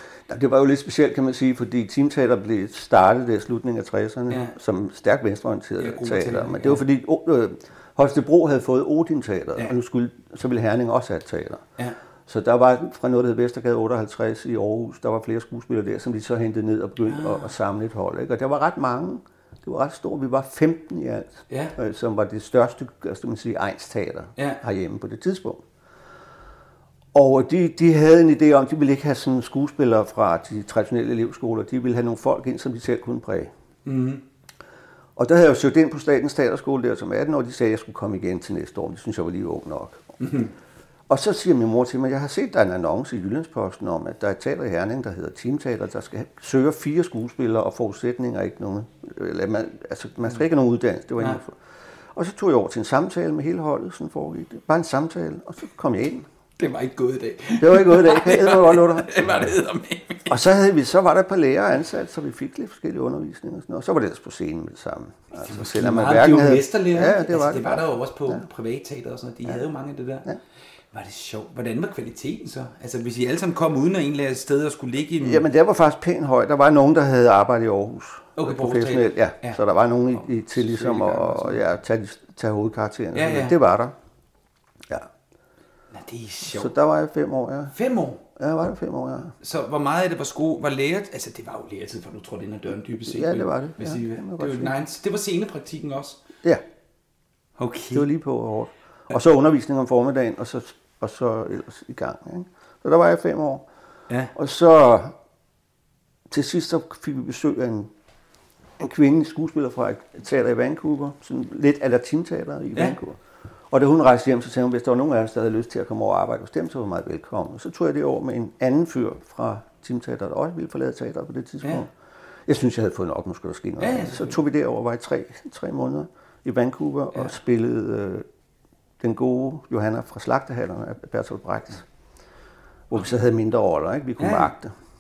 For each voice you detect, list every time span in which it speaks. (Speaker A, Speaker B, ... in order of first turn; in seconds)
Speaker A: 0.3-11.7, 12.3-25.6, 27.1-33.5, 35.2-40.1, 41.1-51.6, 52.1-56.3, 57.6-59.2, 60.3-68.4, 75.2-84.0, 86.5-87.7, 88.4-89.3, 93.1-94.8, 97.9-103.7, 104.3-105.2, 106.3-107.9, 108.8-113.2, 113.7-121.9, 122.5-128.3, 129.0-131.8, 132.9-134.7
Speaker B: 4.3-4.6, 5.8-6.8, 17.1-17.5, 21.5-21.8, 24.4-24.6, 33.9-34.2, 40.2-40.5, 56.6-60.4, 65.4-70.3, 70.9-75.5, 78.4-79.6, 80.1-81.6, 83.1-83.6, 85.9-86.8, 87.7-88.2, 89.4-96.2, 97.6-98.1, 104.1-104.3, 123.8-124.4, 134.2-134.5